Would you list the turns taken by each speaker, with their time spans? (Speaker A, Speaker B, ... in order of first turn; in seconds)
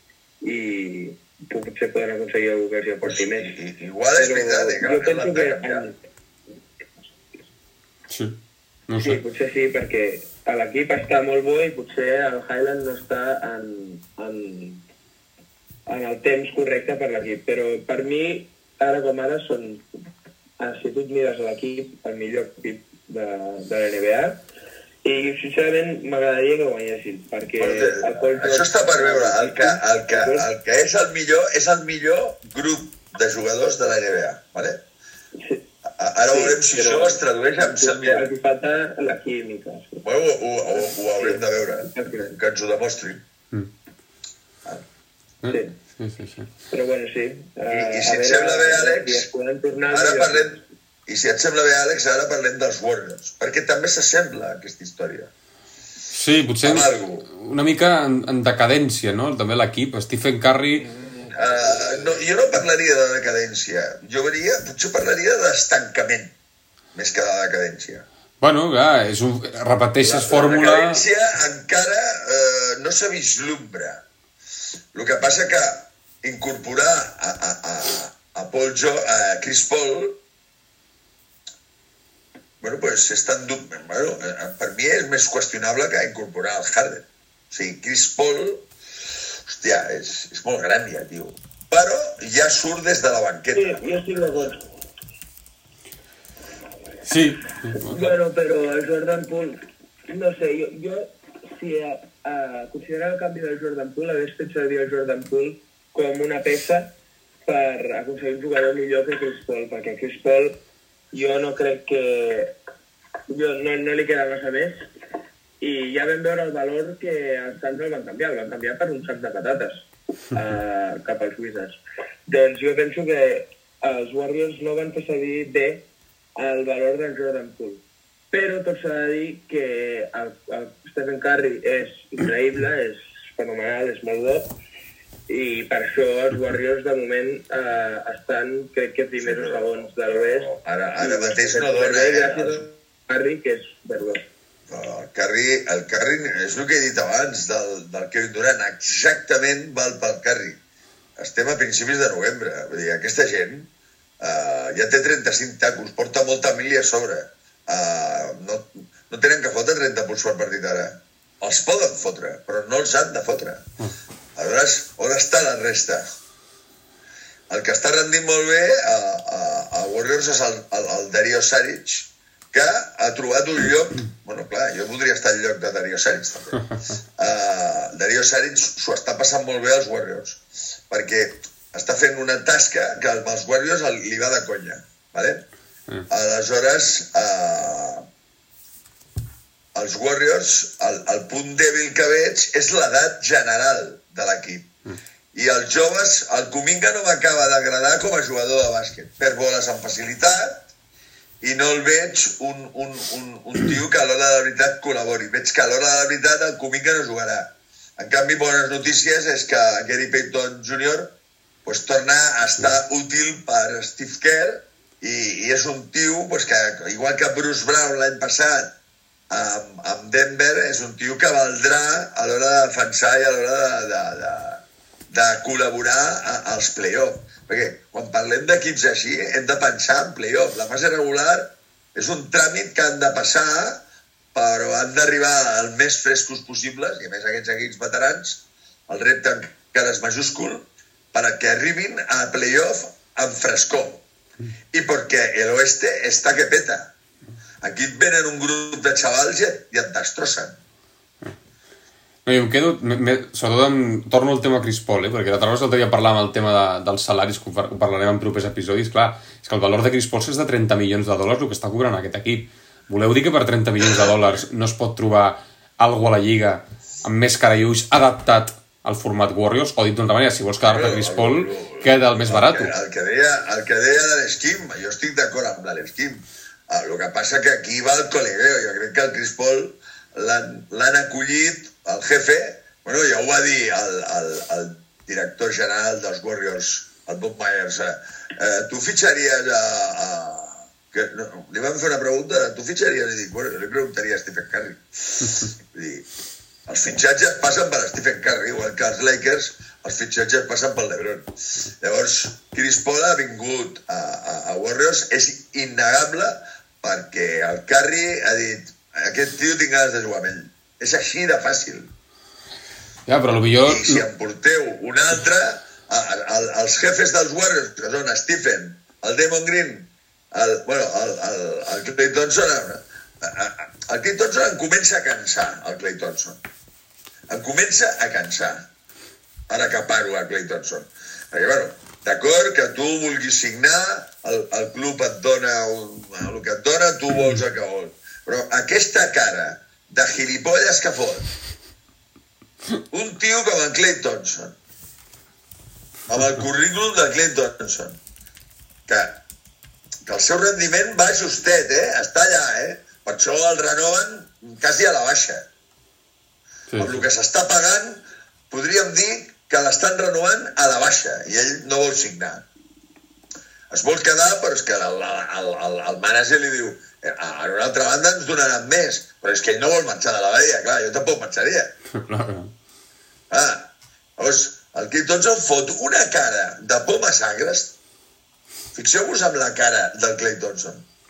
Speaker A: 0.4-3.6, 4.2-5.9, 9.0-14.8, 15.9-19.8, 20.6-24.4, 25.0-30.5, 36.3-40.0, 40.9-42.4, 46.7-50.6, 93.5-94.6, 97.8-106.9, 107.5-110.6, 111.1-112.5, 113.3-114.8, 115.6-125.8, 126.3-134.5, 135.3-144.3
Speaker B: 3.0-5.9, 27.6-34.8, 36.0-38.3, 40.0-43.2, 47.7-49.3, 49.9-55.3, 56.6-57.2, 60.9-66.3, 66.9-68.0, 70.0-74.0, 74.9-80.2, 82.6-88.7, 89.5-94.1, 139.2-142.6, 144.7-150.6, 151.2-153.7, 154.2-163.6, 164.3-166.0, 167.5-176.6, 177.2-185.4, 186.1-188.0, 189.7-194.7, 195.3-200.7, 201.4-211.1, 211.6-218.7, 219.3-233.8, 234.3-244.0, 244.7-246.9, 247.6-250.6, 270.6-296.1, 296.7-311.9, 313.7-326.4, 327.3-328.7, 329.5-341.3, 342.9-344.5, 346.1-348.0, 348.9-349.2, 350.1-355.4, 356.8-362.4, 363.7-371.7, 373.3-377.8, 378.7-380.8
Speaker C: 8.1-8.4, 8.9-9.2, 45.4-46.5, 56.1-60.9, 68.4-71.0, 97.0-98.1, 252.2-272.7, 313.1-314.0, 356.7-357.1, 371.9-372.5